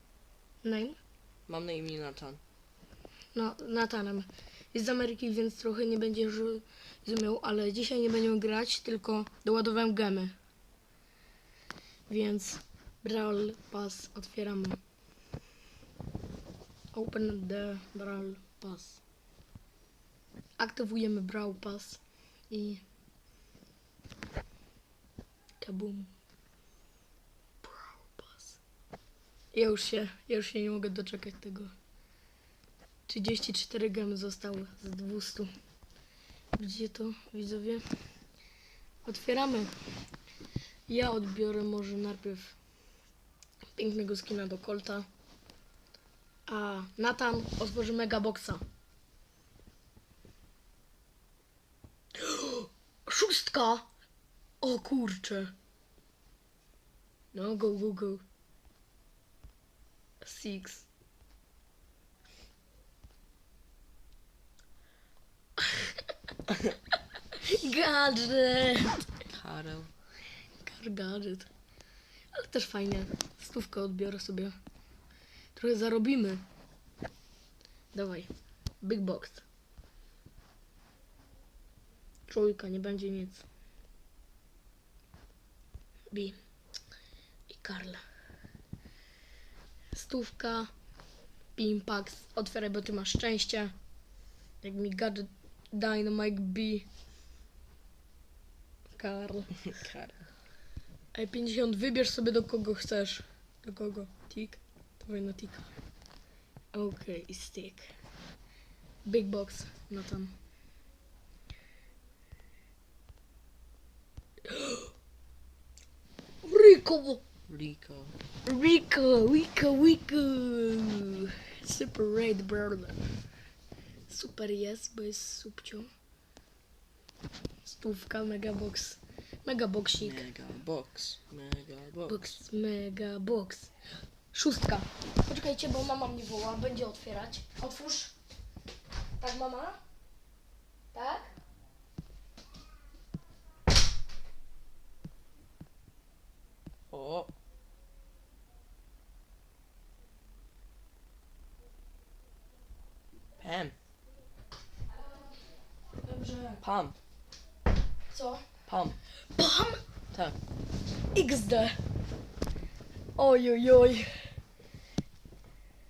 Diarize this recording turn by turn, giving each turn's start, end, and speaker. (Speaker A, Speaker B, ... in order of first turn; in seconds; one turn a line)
Speaker A: 0.6-1.0
Speaker B: 1.5-2.4
Speaker A: 3.3-10.3
Speaker A: 12.1-14.8
Speaker A: 16.9-19.0
Speaker A: 20.6-22.8
Speaker A: 25.6-26.1
Speaker A: 27.6-28.6
Speaker A: 29.5-31.7
Speaker A: 33.1-35.5
Speaker A: 36.5-37.8
Speaker A: 39.0-39.7
Speaker A: 40.9-42.5
Speaker A: 43.8-45.1
Speaker A: 46.5-48.6
Speaker A: 52.1-53.9
Speaker A: 54.6-55.5
Speaker A: 57.3-58.2
Speaker A: 60.2-60.9
Speaker A: 65.6-65.9
Speaker A: 67.3-69.1
Speaker B: 69.3-69.9
Speaker A: 70.6-71.5
Speaker A: 72.3-74.6
Speaker A: 75.5-76.4
Speaker A: 77.9-79.4
Speaker A: 82.3-83.4
Speaker A: 86.1-86.4
Speaker A: 87.5-88.0
Speaker A: 89.9-90.7
Speaker A: 91.5-93.7
Speaker A: 94.6-96.8
Speaker A: 99.0-99.6
Speaker B: 99.7-100.2
Speaker A: 101.1-105.8
Speaker A: 106.7-107.9
Speaker A: 109.0-110.3
Speaker A: 114.5-114.9
Speaker A: 116.4-117.2
Speaker B: 117.5-118.1
Speaker A: 118.4-123.0
Speaker A: 124.1-125.9
Speaker A: 127.6-130.2
Speaker B: 130.0-132.3
Speaker A: 132.1-133.7
Speaker A: 134.3-138.1
Speaker A: 139.2-139.8
Speaker A: 140.9-141.3
Speaker B: 146.9-147.3
Speaker B: 153.4-153.7
Speaker A: 156.0-156.6
Speaker B: 156.6-157.0
Speaker A: 158.1-158.7
Speaker B: 158.7-159.0
Speaker A: 159.3-159.8
Speaker B: 160.1-160.4
Speaker A: 161.1-161.8
Speaker A: 163.2-164.3